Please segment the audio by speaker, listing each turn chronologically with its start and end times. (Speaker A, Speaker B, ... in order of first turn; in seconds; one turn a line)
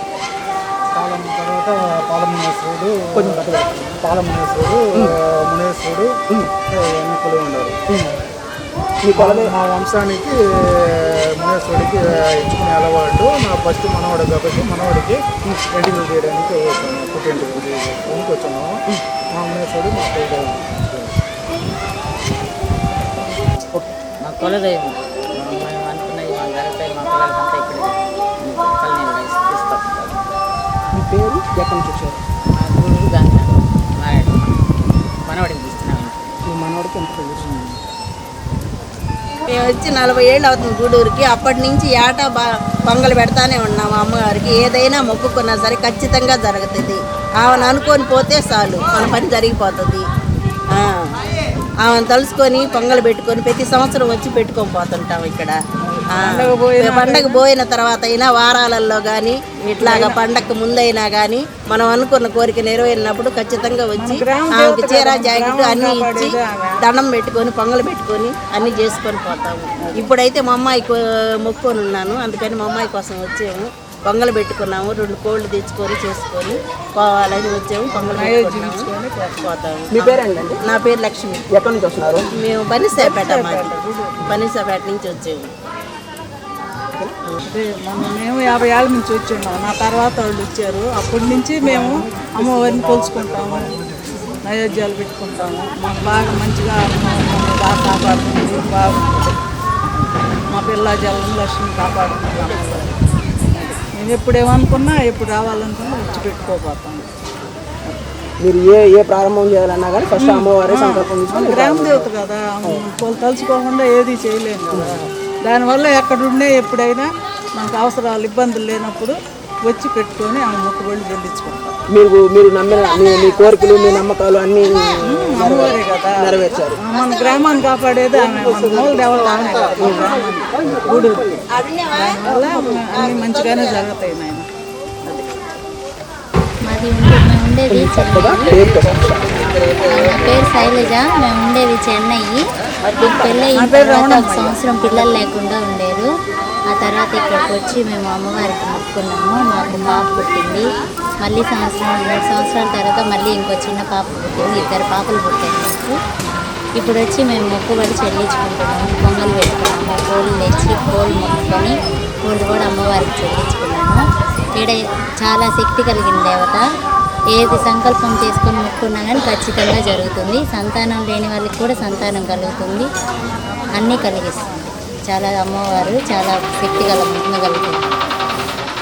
Speaker A: 0.9-6.2
Speaker B: 3.2-3.7
Speaker A: 6.7-7.8
Speaker B: 7.9-8.2
Speaker B: 9.0-9.6
Speaker A: 9.1-18.8
Speaker A: 19.3-21.1
Speaker C: 24.2-30.3
Speaker B: 30.9-32.2
Speaker C: 32.6-34.5
Speaker C: 35.3-36.3
Speaker B: 36.5-37.5
Speaker C: 37.4-37.7
Speaker D: 39.5-50.0
Speaker D: 50.7-51.1
Speaker D: 51.8-55.6
Speaker D: 56.1-81.4
Speaker E: 56.1-57.4
Speaker E: 59.8-60.2
Speaker E: 64.0-66.9
Speaker E: 77.9-79.5
Speaker B: 79.9-80.6
Speaker B: 81.5-82.3
Speaker D: 82.3-85.5
Speaker E: 82.9-84.2
Speaker E: 87.5-93.8
Speaker A: 92.3-93.8
Speaker E: 94.4-99.4
Speaker E: 100.5-102.9
Speaker E: 103.6-107.1
Speaker B: 108.4-112.1
Speaker E: 110.2-119.2
Speaker B: 114.7-115.1
Speaker E: 119.7-121.8
Speaker B: 121.9-126.8
Speaker E: 125.0-131.4
Speaker B: 129.8-131.1
Speaker D: 131.5-133.9
Speaker E: 131.9-134.5
Speaker F: 136.7-138.6
Speaker B: 137.7-139.3
Speaker F: 139.9-142.4
Speaker F: 143.0-146.1
Speaker E: 143.5-144.6
Speaker F: 146.7-150.6
Speaker F: 151.2-155.9
Speaker F: 156.8-161.7
Speaker F: 162.3-164.0
Speaker F: 164.6-166.6
Speaker F: 167.3-172.9
Speaker F: 173.8-174.4
Speaker F: 175.1-177.8